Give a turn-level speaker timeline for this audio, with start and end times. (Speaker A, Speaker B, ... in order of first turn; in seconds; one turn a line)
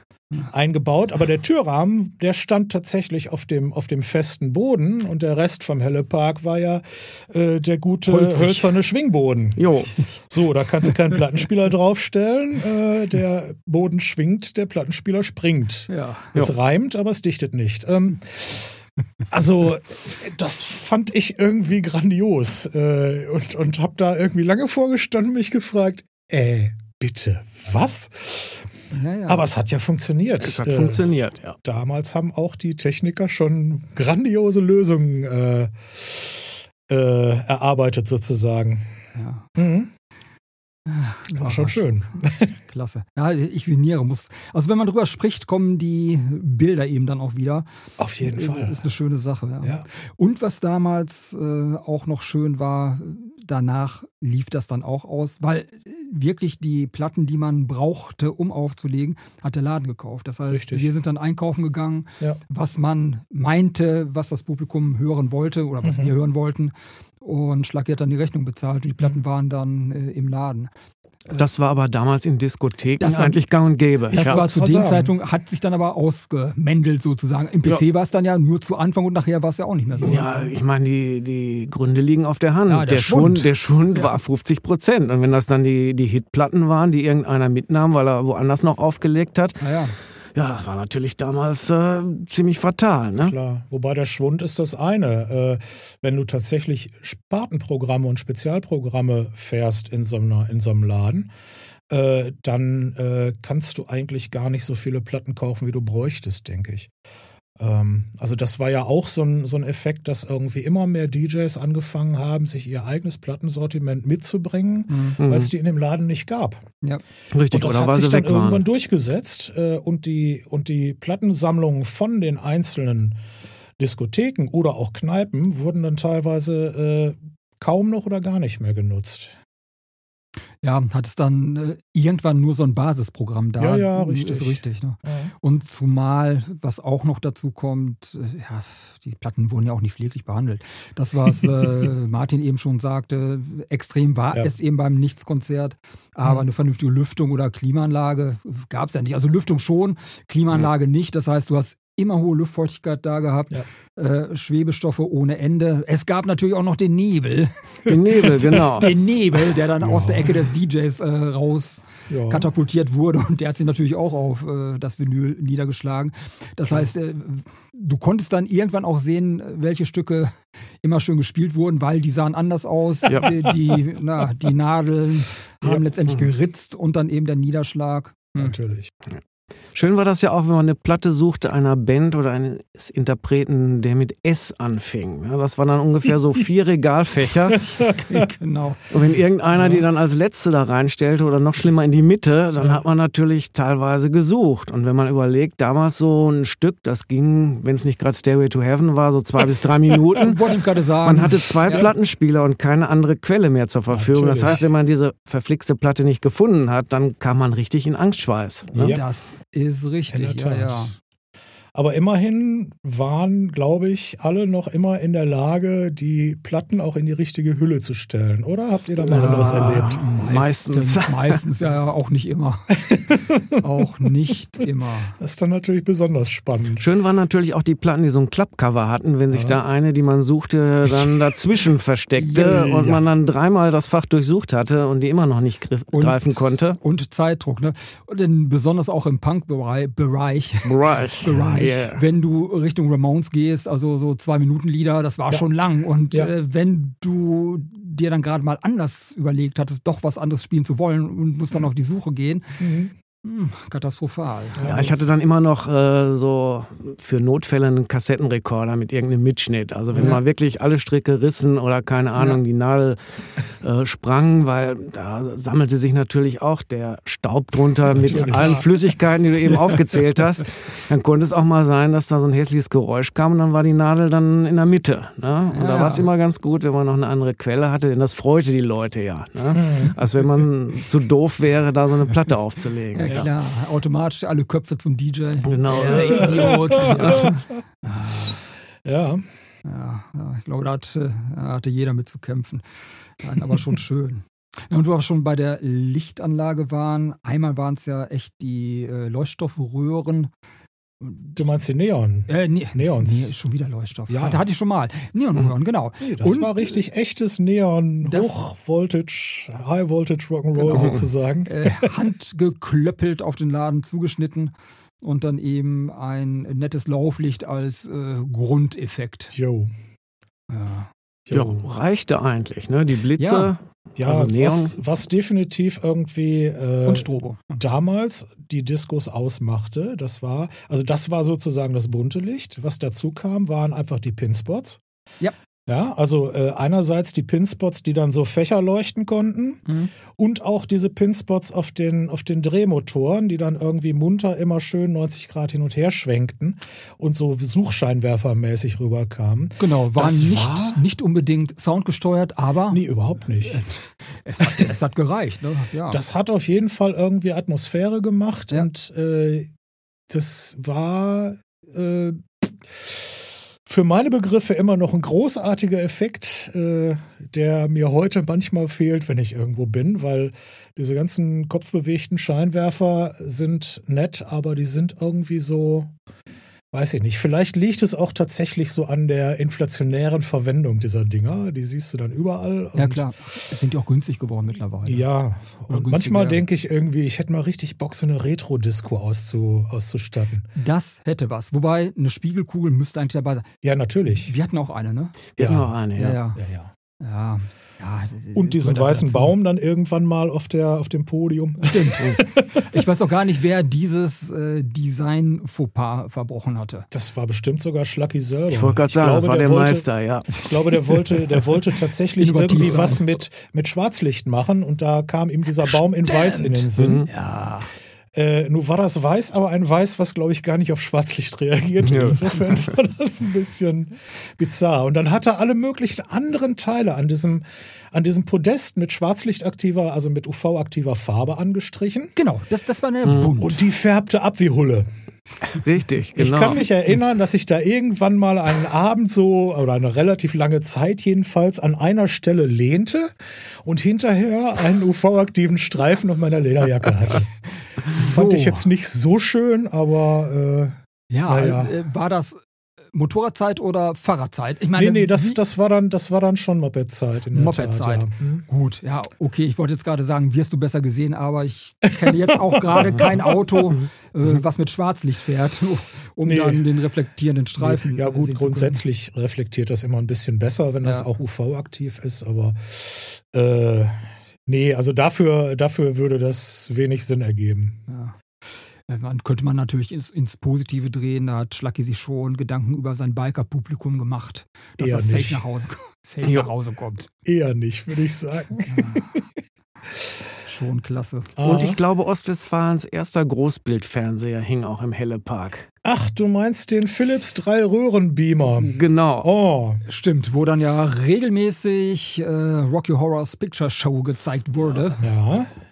Speaker A: 0.5-18.8
Speaker B: 8.1-8.7
Speaker C: 9.6-9.9
Speaker B: 15.9-16.4
Speaker A: 19.3-28.7
Speaker B: 28.9-29.5
Speaker A: 29.3-38.9
Speaker C: 30.4-31.6
Speaker B: 39.1-39.5
Speaker A: 39.5-39.9
Speaker B: 40.9-41.8
Speaker A: 41.4-42.5
Speaker B: 42.7-47.7
Speaker A: 48.0-48.8
Speaker B: 48.2-70.7
Speaker A: 49.6-49.9
Speaker A: 60.5-60.9
Speaker A: 65.8-66.1
Speaker C: 71.4-74.4
Speaker B: 73.0-73.4
Speaker A: 74.1-75.1
Speaker B: 74.1-80.4
Speaker C: 80.0-89.6
Speaker B: 82.7-84.1
Speaker B: 89.6-89.9
Speaker C: 90.3-93.3
Speaker A: 93.2-101.3
Speaker A: 101.9-106.9
Speaker A: 107.6-116.7
Speaker B: 114.9-115.2
Speaker C: 115.2-115.5
Speaker C: 117.3-118.6
Speaker A: 117.5-123.2
Speaker A: 123.8-129.4
Speaker B: 130.6-178.6
Speaker A: 133.6-135.3
Speaker C: 157.9-158.9
Speaker A: 159.8-160.5
Speaker A: 162.1-162.4
Speaker A: 178.4-178.9
Speaker C: 179.7-187.6
Speaker A: 187.5-188.3
Speaker B: 188.1-189.0
Speaker C: 188.9-200.4
Speaker B: 200.2-201.9
Speaker C: 201.0-209.0
Speaker A: 203.9-204.7
Speaker A: 208.7-209.0
Speaker B: 208.8-210.9
Speaker A: 210.1-210.9
Speaker A: 211.7-220.0
Speaker C: 219.1-221.4
Speaker B: 219.1-225.2
Speaker A: 222.8-223.6
Speaker A: 225.2-226.8
Speaker C: 226.8-236.8
Speaker A: 229.3-229.6
Speaker B: 232.2-232.8
Speaker A: 232.4-233.0
Speaker B: 235.9-252.6
Speaker C: 240.6-242.0
Speaker A: 252.6-252.9
Speaker B: 253.2-254.9
Speaker A: 254.6-255.0
Speaker C: 254.6-263.0
Speaker C: 263.6-283.3
Speaker A: 267.9-268.7
Speaker B: 268.1-268.6
Speaker B: 275.5-276.1
Speaker A: 279.5-279.9
Speaker B: 282.9-288.4
Speaker C: 285.4-287.4
Speaker A: 285.7-287.3
Speaker A: 288.8-289.2
Speaker B: 289.6-300.3
Speaker B: 301.0-301.4
Speaker A: 301.4-303.3
Speaker B: 302.3-306.8
Speaker A: 304.1-304.4
Speaker A: 306.0-312.0
Speaker B: 308.0-308.4
Speaker B: 310.5-319.3
Speaker C: 310.7-311.1
Speaker A: 319.3-319.7
Speaker B: 320.5-320.9
Speaker A: 321.3-321.6
Speaker C: 321.3-324.7
Speaker B: 323.2-323.5
Speaker A: 324.0-334.8
Speaker B: 326.8-327.6
Speaker A: 335.7-350.8
Speaker B: 339.6-339.9
Speaker B: 349.6-352.8
Speaker A: 352.7-353.6
Speaker B: 353.4-356.0
Speaker A: 355.9-359.5
Speaker A: 360.1-375.9
Speaker A: 376.7-383.1
Speaker B: 382.7-385.1
Speaker A: 384.8-390.5
Speaker B: 385.7-386.4
Speaker B: 390.6-393.5
Speaker A: 393.6-394.3
Speaker B: 394.1-396.4
Speaker C: 395.4-396.2
Speaker A: 395.4-395.7
Speaker A: 396.4-396.7
Speaker B: 397.0-399.3
Speaker A: 398.3-402.8
Speaker B: 401.6-406.9
Speaker A: 406.9-409.8
Speaker C: 408.5-410.3
Speaker B: 410.3-411.6
Speaker A: 410.4-417.1
Speaker B: 412.2-413.1
Speaker B: 415.6-417.7
Speaker C: 416.8-417.1
Speaker A: 418.1-432.1
Speaker C: 421.8-422.7
Speaker B: 432.1-433.6
Speaker A: 433.4-434.9
Speaker C: 435.5-436.6
Speaker A: 436.1-447.3
Speaker B: 447.8-448.6
Speaker A: 447.9-451.7
Speaker B: 451.1-452.4
Speaker B: 452.9-455.4
Speaker A: 454.7-458.4
Speaker B: 457.3-468.8
Speaker A: 462.0-463.4
Speaker A: 466.2-466.6
Speaker A: 467.6-477.8
Speaker B: 477.9-487.1
Speaker A: 484.8-485.4
Speaker C: 486.2-486.5
Speaker A: 487.2-489.2
Speaker B: 488.7-489.1
Speaker B: 490.4-491.3
Speaker A: 491.4-491.8
Speaker C: 491.4-495.7
Speaker A: 495.8-499.8
Speaker C: 498.6-499.3
Speaker B: 499.9-505.1
Speaker A: 505.0-505.5